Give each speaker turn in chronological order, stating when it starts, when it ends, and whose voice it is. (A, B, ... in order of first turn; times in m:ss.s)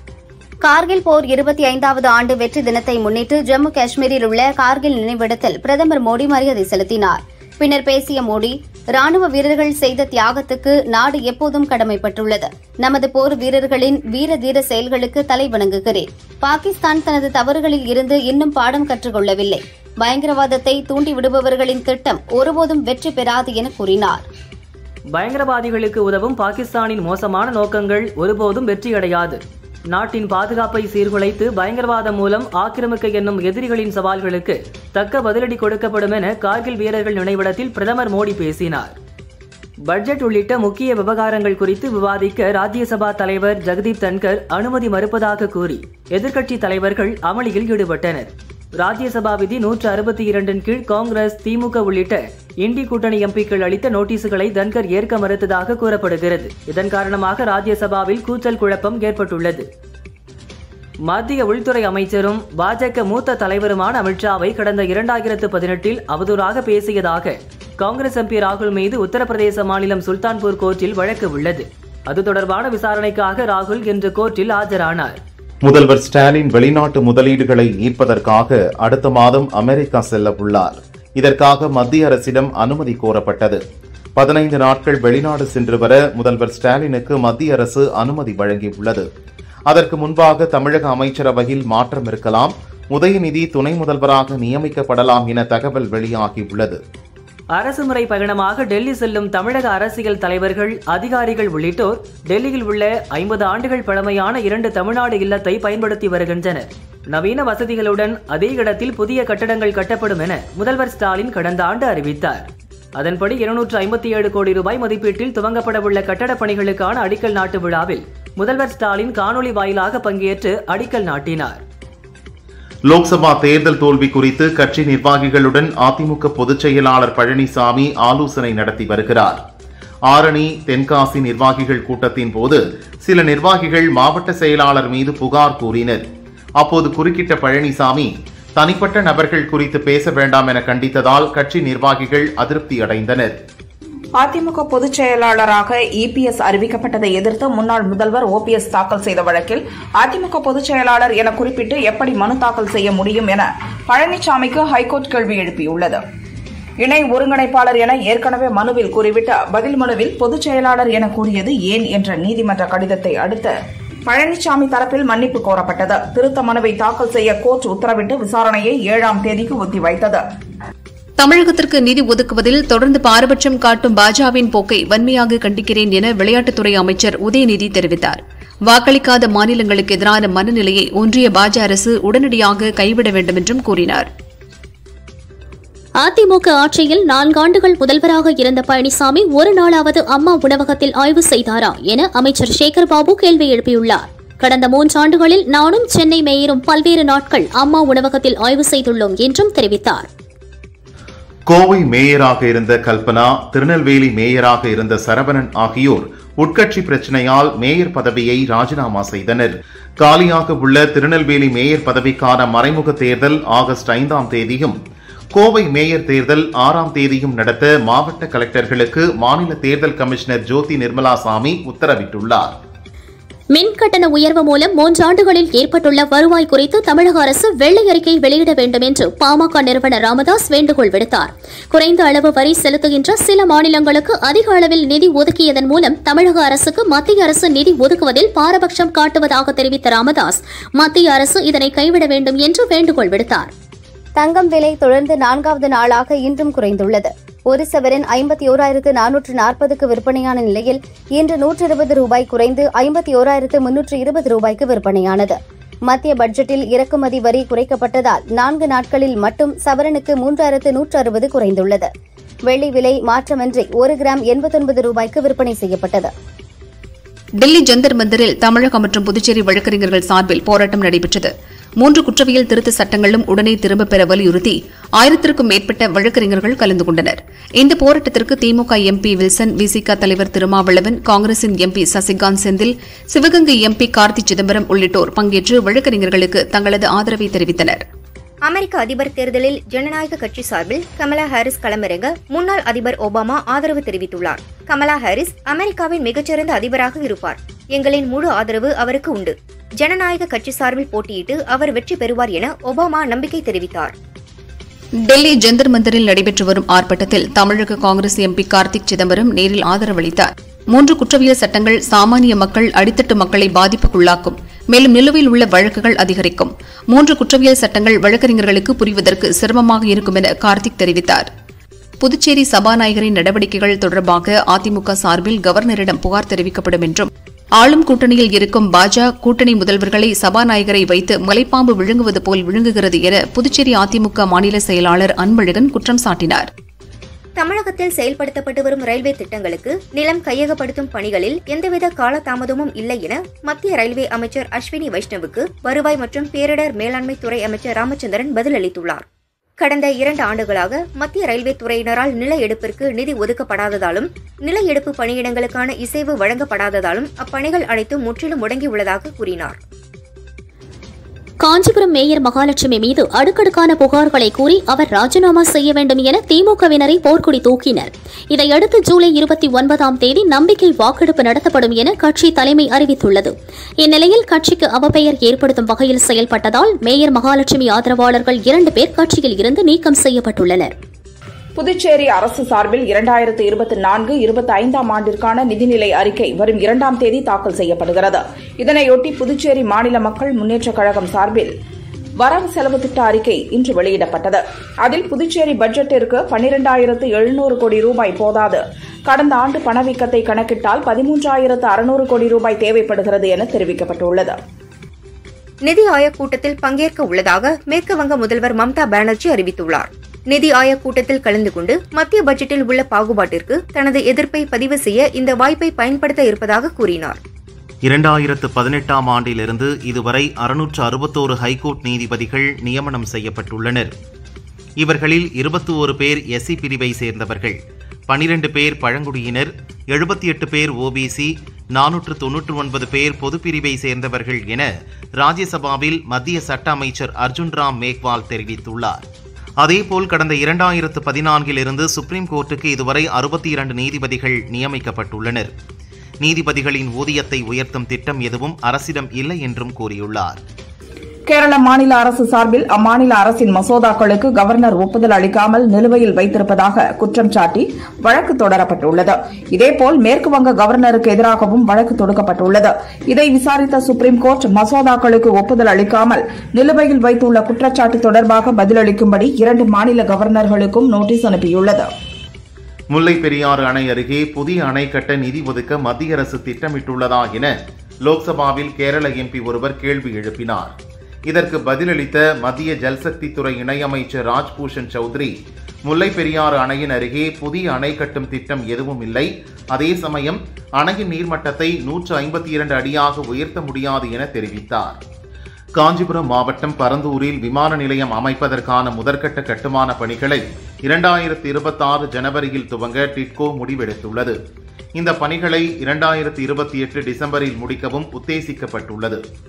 0:00.6-0:24.2 A
0:25.1-0:29.4 B
0:29.9-0:38.9 B
0:39.8-0:59.6 B
1:01.0-1:15.2 B
1:15.6-1:23.6 C
1:24.2-1:29.0 C
1:29.7-1:36.8 C
1:37.5-2:01.6 B
2:02.9-2:09.4 C
2:10.1-2:16.0 C
2:16.6-2:23.3 C
2:24.2-2:36.0 D
2:36.8-2:43.5 D
2:44.1-2:50.2 D
2:51.2-3:04.1 E
3:06.0-3:20.1 F
3:21.5-3:34.8 C
3:35.3-3:42.5 C
3:43.5-4:03.5 F
4:04.2-4:21.9 A
4:22.5-4:26.1 A
4:27.4-4:47.8 E
4:48.4-5:03.9 G
5:05.0-5:21.3 E
5:22.0-5:36.5 E
5:37.4-5:49.0 G
5:49.6-5:59.6 G
6:01.4-6:20.7 F
6:21.6-6:31.5 D
6:32.2-6:44.4 D
6:45.6-6:57.2 G
6:57.8-7:03.9 C
7:04.8-7:07.6 C
7:08.1-7:19.0 C
7:19.6-7:25.5 C
7:26.2-7:30.4 C
7:31.3-7:51.9 D
7:52.9-7:57.5 C
7:58.0-8:00.7 C
8:01.3-8:05.3 C
8:05.8-8:15.0 C
8:15.7-8:24.4 C
8:25.0-8:29.2 C